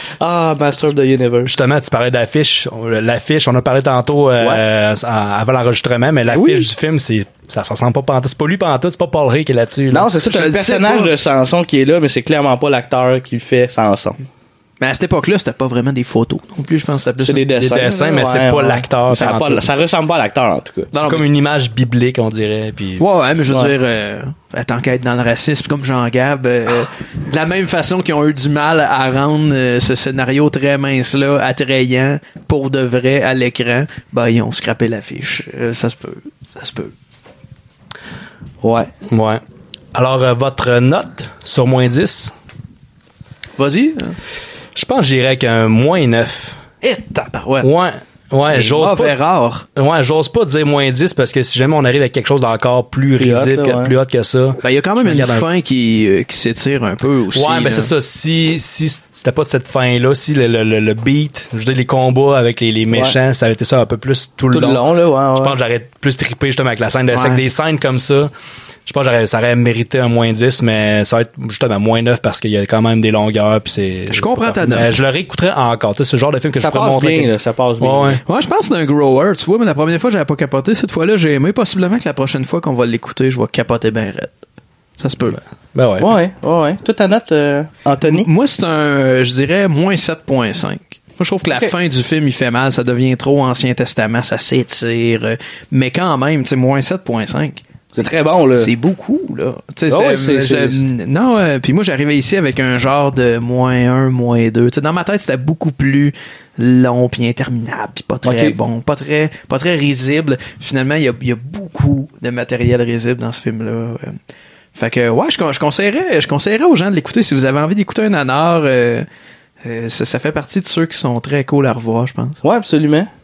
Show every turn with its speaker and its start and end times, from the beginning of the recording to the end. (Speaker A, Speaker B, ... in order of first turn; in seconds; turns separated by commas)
Speaker A: 0.2-1.5, Speaker B: 1.5-10.1, Speaker A: 9.9-14.2, Speaker C: 10.2-11.1, Speaker C: 14.8-17.5, Speaker A: 17.2-20.9, Speaker B: 17.6-19.6, Speaker C: 20.9-21.3, Speaker B: 21.1-23.1, Speaker C: 23.0-36.9, Speaker A: 23.5-23.8, Speaker A: 38.6-38.9, Speaker B: 39.1-39.4, Speaker B: 39.9-42.3, Speaker C: 43.6-44.2, Speaker B: 44.8-46.6, Speaker C: 46.8-47.7, Speaker B: 47.6-49.2, Speaker C: 48.4-49.7, Speaker B: 49.8-55.5, Speaker A: 53.2-53.9, Speaker C: 54.6-57.9, Speaker B: 57.3-64.8, Speaker A: 62.9-63.2, Speaker A: 64.5-65.6, Speaker B: 65.4-68.3, Speaker C: 67.1-67.4, Speaker B: 68.9-78.2, Speaker C: 74.1-74.9, Speaker A: 76.6-78.2, Speaker C: 78.2-84.3, Speaker C: 85.0-85.4, Speaker B: 85.8-86.1, Speaker A: 86.0-88.3, Speaker C: 88.0-97.6, Speaker A: 91.5-91.8, Speaker A: 98.0-98.7, Speaker C: 98.5-114.2, Speaker A: 99.9-100.9, Speaker A: 108.2-108.6, Speaker C: 114.8-119.1, Speaker C: 119.6-122.4, Speaker A: 122.4-123.1